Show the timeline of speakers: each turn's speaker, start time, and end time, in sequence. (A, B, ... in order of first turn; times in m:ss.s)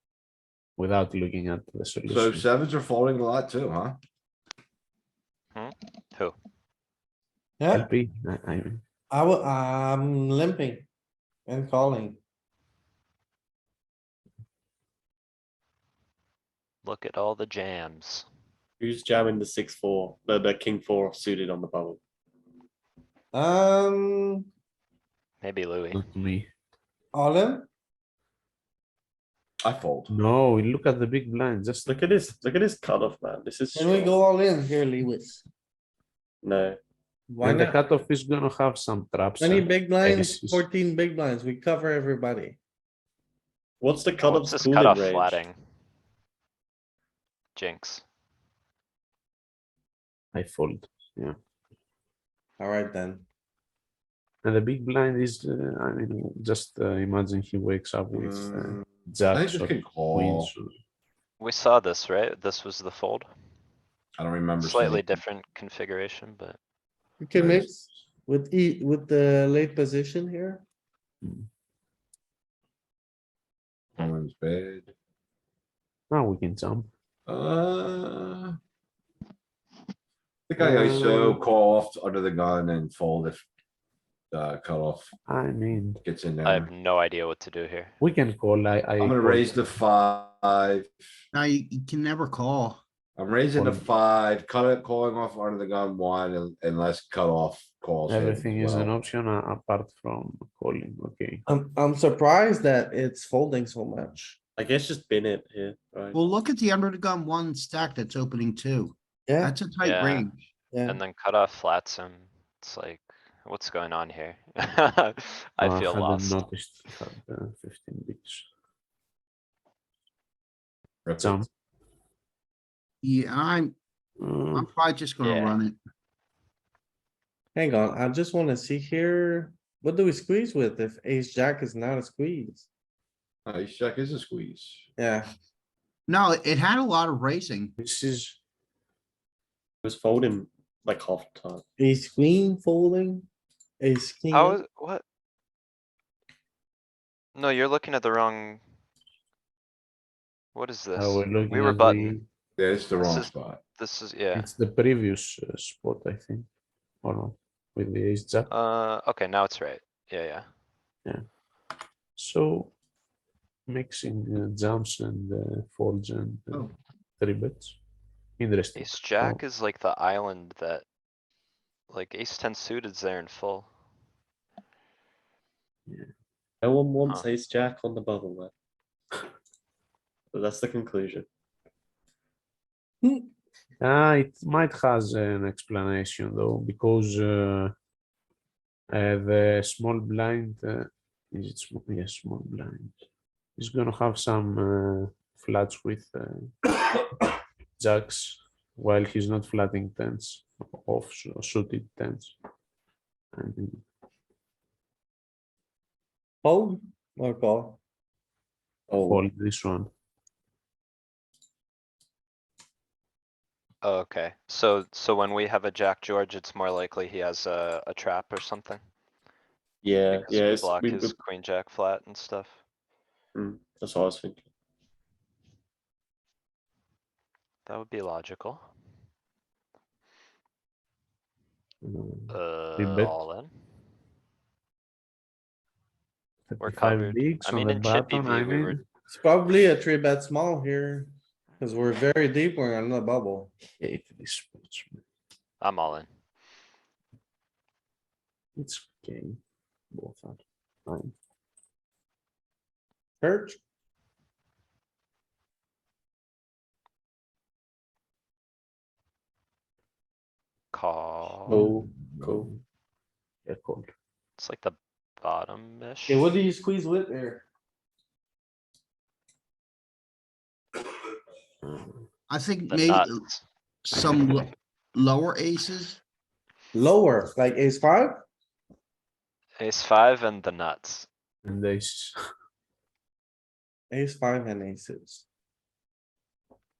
0:00.8-0:02.4 A
0:02.1-0:04.0 B
0:05.5-0:06.4 C
0:07.6-0:07.8 D
0:07.7-0:08.8 A
0:09.1-0:10.8 D
0:11.5-0:12.2 D
0:16.8-0:18.3 C
0:18.8-0:22.0 E
0:23.3-0:24.4 D
0:25.4-0:26.0 C
0:25.9-0:26.5 A
0:27.1-0:27.7 D
0:29.6-0:30.1 B
0:30.1-0:31.9 A
0:31.8-0:34.2 E
0:33.7-0:35.4 D
0:36.4-0:36.8 E
0:37.3-0:37.8 D
0:37.4-0:40.6 A
0:39.4-0:42.6 D
0:43.8-0:45.4 E
0:44.2-0:45.6 C
0:47.6-0:48.0 C
0:50.3-0:51.4 A
0:52.6-0:53.2 D
0:54.4-1:00.7 A
0:58.1-1:00.5 B
1:01.4-1:03.3 C
1:04.2-1:05.0 B
1:04.6-1:06.6 C
1:07.2-1:10.6 D
1:07.4-1:07.6 B
1:11.2-1:11.5 A
1:14.0-1:14.9 B
1:16.1-1:16.9 A
1:17.3-1:18.6 B
1:20.5-1:23.4 B
1:20.6-1:21.4 A
1:24.3-1:25.1 B
1:25.3-1:26.0 A
1:26.0-1:26.7 B
1:26.4-1:27.9 C
1:28.0-1:29.7 A
1:29.0-1:30.9 B
1:31.3-1:32.8 F
1:33.2-1:38.9 B
1:33.5-1:33.8 A
1:38.1-1:41.4 A
1:41.5-1:44.4 D
1:44.6-1:46.2 E
1:46.1-1:50.3 F
1:49.3-1:49.5 D
1:49.8-1:50.3 C
1:50.7-1:51.0 D
1:50.8-1:56.4 C
1:55.6-1:58.4 A
2:01.0-2:01.4 B
2:01.2-2:01.5 A
2:03.0-2:03.7 F
2:04.2-2:04.7 A
2:04.5-2:05.8 F
2:05.2-2:05.6 C
2:07.5-2:12.6 D
2:13.4-2:14.8 B
2:15.0-2:15.3 D
2:16.1-2:17.7 F
2:17.8-2:18.4 A
2:19.8-2:21.6 E
2:21.8-2:23.2 D
2:23.8-2:24.6 D
2:24.3-2:25.0 C
2:27.3-2:28.6 C
2:30.5-2:32.2 C
2:30.9-2:32.2 A
2:32.6-2:33.6 B
2:33.0-2:34.5 C
2:34.3-2:36.5 A
2:37.0-2:38.5 A
2:38.5-2:40.5 C
2:42.2-2:42.7 A
2:43.7-2:47.8 A
2:48.4-2:49.4 A
2:48.8-2:50.8 C
2:51.9-2:53.7 C
2:56.6-2:58.5 E
3:00.3-3:01.2 E
3:03.0-3:03.3 D
3:03.8-3:07.7 A
3:08.9-3:12.9 A
3:13.6-3:16.7 A
3:17.8-3:22.3 A
3:23.3-3:23.8 A
3:26.4-3:27.8 D
3:28.9-3:29.2 E
3:29.0-3:29.9 A
3:33.8-3:38.8 C
3:39.8-3:41.1 E
3:40.1-3:42.6 C
3:43.3-3:44.4 E
3:47.6-3:48.7 C
3:51.8-3:53.2 A
3:52.3-3:53.5 C
3:56.5-3:58.8 A
3:56.6-3:58.8 C
3:59.1-4:03.5 D
4:03.8-4:05.0 A
4:05.6-4:06.1 C
4:08.6-4:09.4 A
4:09.9-4:11.1 A
4:13.2-4:13.6 D
4:20.7-4:21.5 C
4:21.5-4:22.5 E
4:21.5-4:22.5 A
4:23.4-4:23.9 A
4:24.4-4:26.3 C
4:26.1-4:27.4 D
4:31.6-4:31.9 A
4:32.3-4:33.2 F
4:32.7-4:33.4 C
4:33.8-4:36.0 F
4:36.7-4:38.2 D
4:39.6-4:41.1 C
4:41.4-4:42.2 A
4:43.9-4:45.2 D